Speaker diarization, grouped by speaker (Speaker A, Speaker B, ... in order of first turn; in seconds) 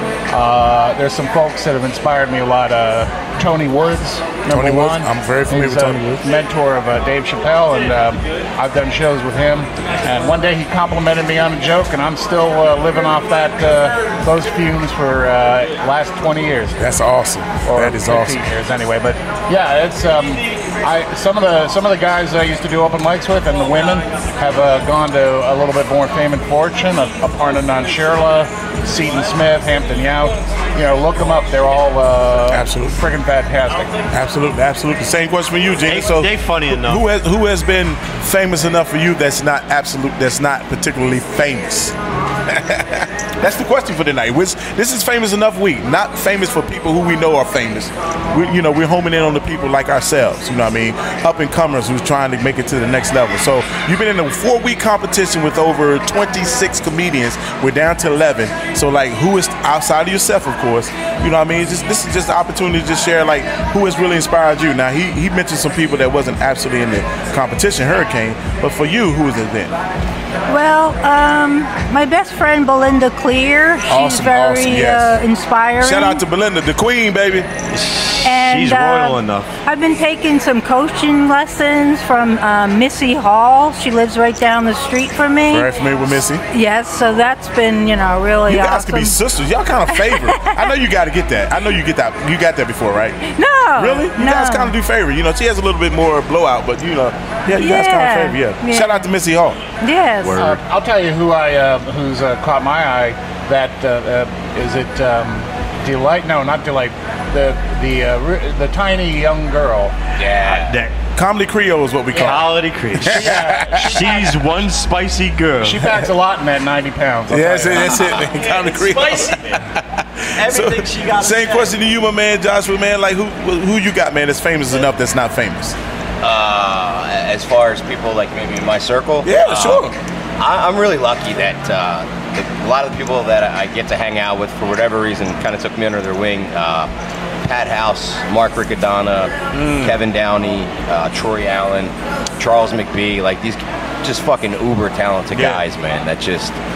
Speaker A: 0.3-16.8, 17.7-34.0, 100.3-109.9, 113.0-114.4, 115.6-118.2
Speaker B: 4.6-6.2, 16.8-18.3, 32.5-33.0, 34.1-36.3, 36.8-41.9, 42.5-69.7, 73.9-75.2, 75.8-77.5, 85.5-86.4, 88.5-93.2, 93.8-99.6, 111.2-112.4, 113.3-113.9, 117.3-119.3, 120.6-125.8, 129.2-129.9, 139.5-139.9, 145.3-145.6
Speaker C: 35.9-37.0, 77.7-79.5, 100.2-100.6, 110.4-110.9, 112.1-115.9, 118.2-119.7, 120.3-121.8
Speaker D: 70.5-76.2, 78.2-85.8, 86.5-89.2, 89.9-90.7, 93.2-94.8, 97.6-99.1, 99.8-100.3
Speaker E: 110.2-110.8, 126.2-136.9, 137.4-146.6